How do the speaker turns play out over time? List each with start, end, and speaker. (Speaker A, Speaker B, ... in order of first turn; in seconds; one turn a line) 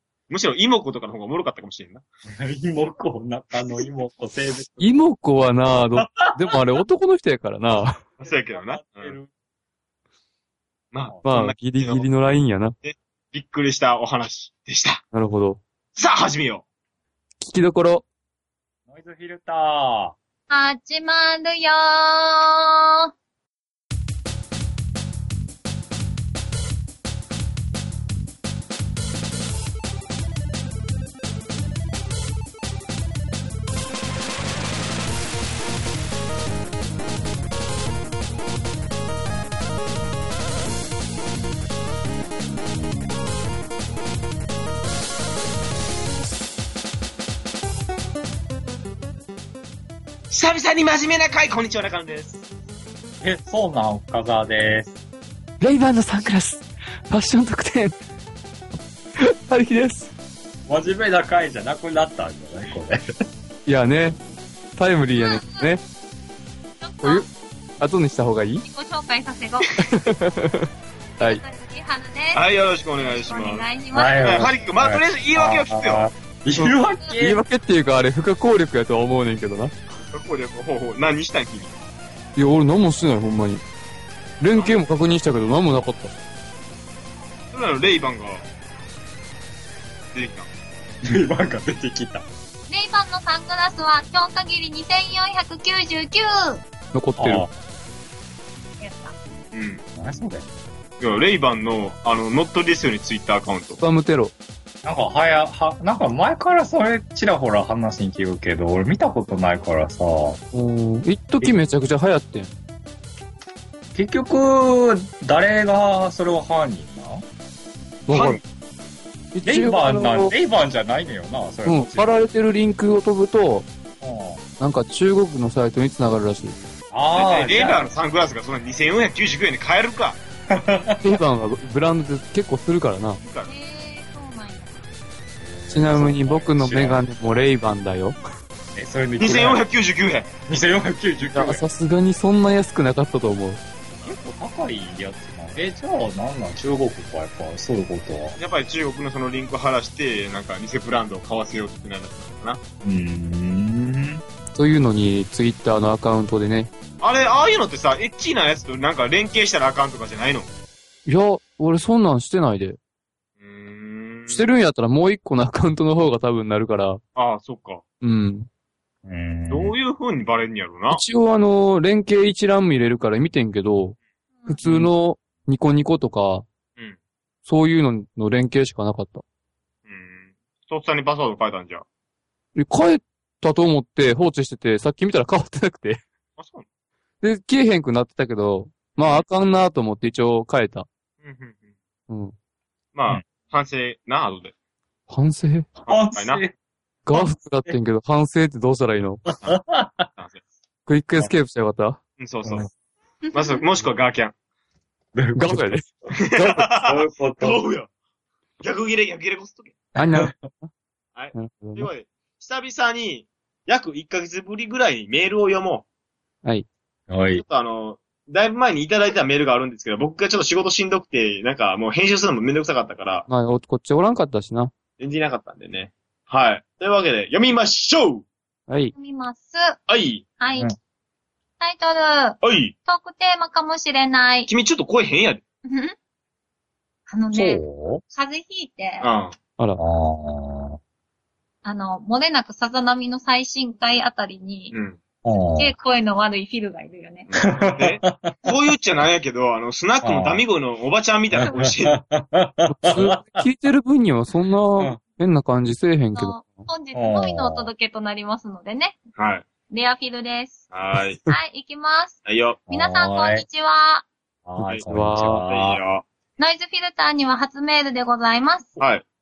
Speaker A: 0.3-2.0
Speaker B: 2.3-5.0
Speaker C: 4.8-8.0
Speaker B: 6.0-6.5
Speaker A: 8.2-9.2
Speaker B: 8.2-9.3
Speaker A: 10.9-12.1
Speaker C: 11.2-12.7
Speaker A: 12.8-15.0
Speaker C: 15.1-15.6
Speaker A: 15.9-16.6
Speaker C: 17.4-18.0
Speaker B: 18.9-20.1
Speaker D: 20.5-22.9
Speaker A: 50.3-52.4
Speaker B: 53.2-55.0
Speaker C: 55.6-57.9
Speaker C: 59.2-60.1
Speaker B: 60.7-63.0
Speaker C: 63.6-64.2
Speaker C: 64.8-65.8
Speaker D: 65.1-65.7
Speaker D: 66.8-67.2
Speaker C: 67.0-67.3
Speaker C: 67.8-68.7
Speaker D: 68.7-69.7
Speaker C: 69.8-70.7
Speaker D: 71.2-72.4
Speaker A: 72.3-73.6
Speaker D: 73.0-74.5
Speaker B: 73.9-77.4
Speaker A: 74.2-76.1
Speaker C: 76.5-79.7
Speaker A: 80.1-81.7
Speaker C: 82.3-83.6
Speaker C: 84.4-86.1
Speaker A: 84.5-84.8
Speaker A: 87.5-88.4
Speaker A: 90.1-90.5
Speaker B: 91.0-92.2
Speaker D: 92.7-96.6
Speaker C: 96.9-97.5
Speaker B: 97.2-97.5
Speaker D: 98.8-99.1
Speaker A: 99.5-99.8
Speaker B: 99.9-100.5
Speaker A: 101.0-103.8
Speaker C: 103.8-104.3
Speaker B: 104.8-110.4
Speaker C: 110.5-112.5
Speaker B: 113.9-117.2
Speaker C: 118.1-118.4
Speaker A: 118.1-118.4
Speaker C: 119.3-120.3
Speaker B: 119.4-122.1
Speaker C: 121.6-123.7
Speaker B: 124.0-124.4
Speaker C: 124.6-126.6
Speaker B: 126.9-127.9
Speaker A: 127.1-130.2
Speaker B: 130.5-131.2
Speaker C: 131.0-133.2
Speaker A: 133.2-133.5
Speaker D: 133.4-134.8
Speaker B: 135.4-137.4
Speaker C: 135.7-138.2
Speaker B: 138.7-139.6
Speaker A: 139.2-140.3
Speaker B: 140.4-141.7
Speaker C: 141.3-143.6
Speaker B: 144.0-148.4
Speaker A: 148.4-152.6
Speaker B: 152.8-154.2
Speaker C: 154.5-156.7
Speaker A: 157.0-160.5
Speaker C: 161.1-162.8
Speaker A: 163.4-164.5
Speaker C: 164.3-167.0
Speaker A: 167.2-167.8
Speaker C: 168.0-168.5
Speaker B: 169.1-169.7
Speaker A: 169.5-171.0
Speaker C: 170.9-174.0
Speaker C: 174.5-176.4
Speaker B: 174.6-174.9
Speaker C: 177.4-179.2
Speaker A: 179.9-181.8
Speaker C: 182.5-186.0
Speaker A: 186.4-186.7
Speaker C: 187.2-190.8
Speaker A: 191.2-191.7
Speaker C: 192.1-192.3
Speaker A: 192.9-194.5
Speaker C: 195.1-195.7
Speaker A: 195.8-196.4
Speaker B: 195.9-196.5
Speaker C: 197.1-199.2
Speaker B: 197.1-197.7
Speaker B: 199.4-200.1
Speaker A: 200.1-200.4
Speaker C: 200.9-202.0
Speaker A: 202.2-202.7
Speaker B: 202.4-202.7
Speaker D: 203.3-203.6
Speaker A: 203.3-204.3
Speaker B: 205.1-205.7
Speaker C: 205.3-206.7
Speaker A: 206.2-207.9
Speaker B: 206.7-207.6
Speaker A: 208.6-209.7
Speaker B: 209.9-210.4
Speaker C: 210.0-210.7
Speaker A: 211.1-215.8
Speaker C: 211.3-211.9
Speaker B: 217.1-217.4
Speaker A: 217.3-223.2
Speaker C: 223.3-224.7
Speaker A: 225.0-228.2
Speaker C: 228.7-228.9
Speaker D: 228.9-229.8
Speaker A: 229.9-230.2
Speaker D: 230.4-230.7
Speaker D: 231.6-234.5
Speaker A: 232.4-232.7
Speaker A: 234.5-235.4
Speaker D: 235.6-235.9
Speaker D: 237.1-239.1
Speaker B: 237.3-238.0
Speaker A: 239.0-239.3
Speaker B: 239.8-240.8
Speaker D: 241.6-244.7
Speaker A: 244.7-245.0
Speaker B: 245.2-245.7
Speaker D: 245.3-247.3
Speaker A: 247.3-252.0
Speaker B: 247.4-248.5
Speaker B: 250.0-250.4
Speaker B: 251.3-253.4
Speaker C: 252.7-256.7
Speaker D: 256.1-259.0
Speaker B: 256.9-257.7
Speaker A: 259.1-259.5
Speaker D: 259.7-260.6
Speaker A: 260.7-261.2
Speaker D: 261.3-262.2
Speaker A: 262.2-262.6
Speaker B: 262.7-263.4
Speaker D: 262.7-264.1
Speaker B: 264.4-265.8
Speaker A: 264.6-264.9
Speaker C: 264.8-265.4
Speaker A: 265.5-266.0
Speaker D: 266.4-268.8
Speaker A: 268.8-269.0